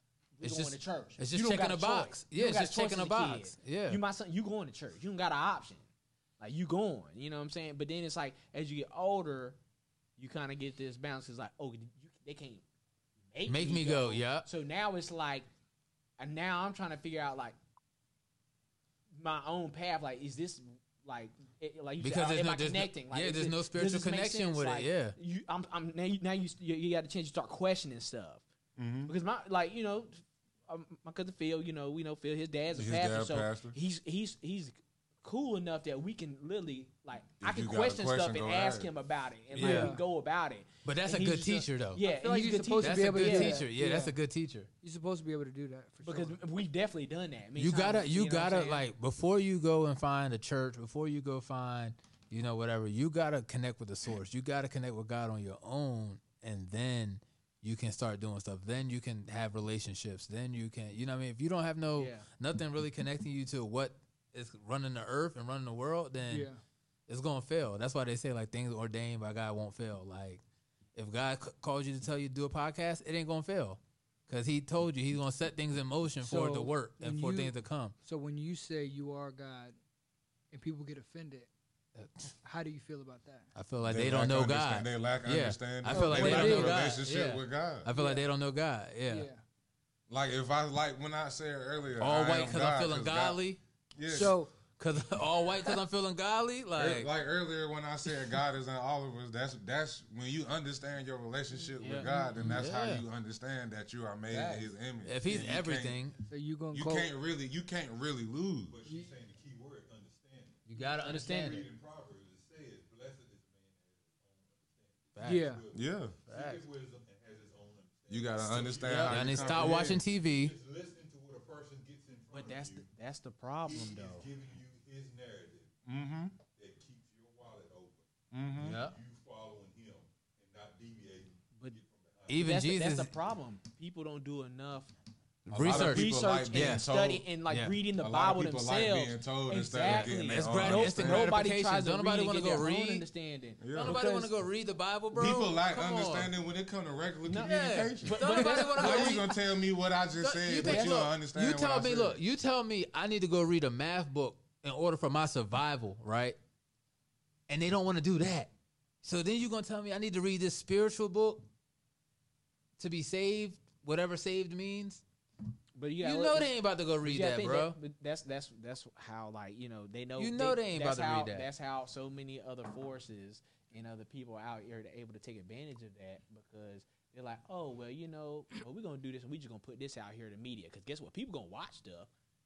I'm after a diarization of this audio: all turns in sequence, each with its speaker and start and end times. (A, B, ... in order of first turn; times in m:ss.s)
0:00.4-0:05.9 A
0:00.4-0:04.0 B
0:06.4-0:09.6 A
0:10.2-0:12.6 A
0:13.3-0:15.5 A
0:13.4-0:14.5 B
0:16.2-0:17.6 A
0:19.2-0:28.4 A
0:22.0-0:25.2 B
0:28.8-0:29.1 C
0:29.0-0:43.6 A
0:32.7-0:33.8 C
0:37.4-0:38.9 C
0:39.5-0:40.0 B
0:39.6-0:40.0 D
0:40.8-0:42.0 B
0:42.0-0:44.1 D
0:42.8-0:44.7 B
0:44.8-0:46.4 D
0:46.0-0:48.8 A
0:47.6-1:06.5 B
1:02.0-1:02.2 A
1:06.3-1:06.6 D
1:07.1-1:10.4 B
1:10.9-1:17.9 B
1:16.2-1:17.5 D
1:18.0-1:19.8 D
1:20.5-1:21.5 D
1:22.0-1:22.3 B
1:22.4-1:23.5 D
1:23.5-1:29.3 B
1:23.9-1:27.9 C
1:25.9-1:26.9 D
1:27.9-1:28.2 D
1:29.1-1:29.4 D
1:30.1-1:33.4 C
1:32.0-1:33.6 B
1:34.0-1:34.4 C
1:34.1-1:34.5 D
1:34.8-1:37.1 B
1:36.8-1:46.0 C
1:41.8-1:42.1 A
1:42.0-1:42.3 D
1:42.3-1:43.0 B
1:44.3-1:46.2 B
1:46.3-1:47.1 D
1:46.7-1:48.8 C
1:48.7-2:02.9 E
1:50.7-1:51.6 B
1:51.0-1:51.6 A
1:55.1-1:55.5 B
1:55.2-1:55.6 D
1:55.7-1:56.1 C
1:56.3-1:56.6 B
1:58.1-2:00.0 C
1:58.9-2:00.5 B
2:02.3-2:04.3 A
2:03.6-2:05.7 E
2:05.9-2:06.4 C
2:06.5-2:08.0 E
2:08.3-2:08.8 C
2:08.6-2:09.0 B
2:08.6-2:12.5 E
2:12.3-2:13.1 B
2:12.3-2:14.9 A
2:15.5-2:17.3 C
2:15.5-2:16.9 B
2:15.6-2:23.7 A
2:17.5-2:17.8 B
2:18.0-2:21.4 C
2:19.8-2:23.1 B
2:23.6-2:24.0 C
2:23.7-2:26.3 B
2:23.8-2:24.3 D
2:25.1-2:32.2 C
2:27.3-2:29.2 A
2:27.4-2:29.4 B
2:28.4-2:28.7 D
2:30.2-2:36.4 B
2:30.5-2:31.1 A
2:37.5-2:38.5 B
2:39.0-2:41.4 B
2:42.8-2:45.0 B
2:45.7-3:02.1 A
2:46.0-2:47.8 B
2:50.2-2:51.5 B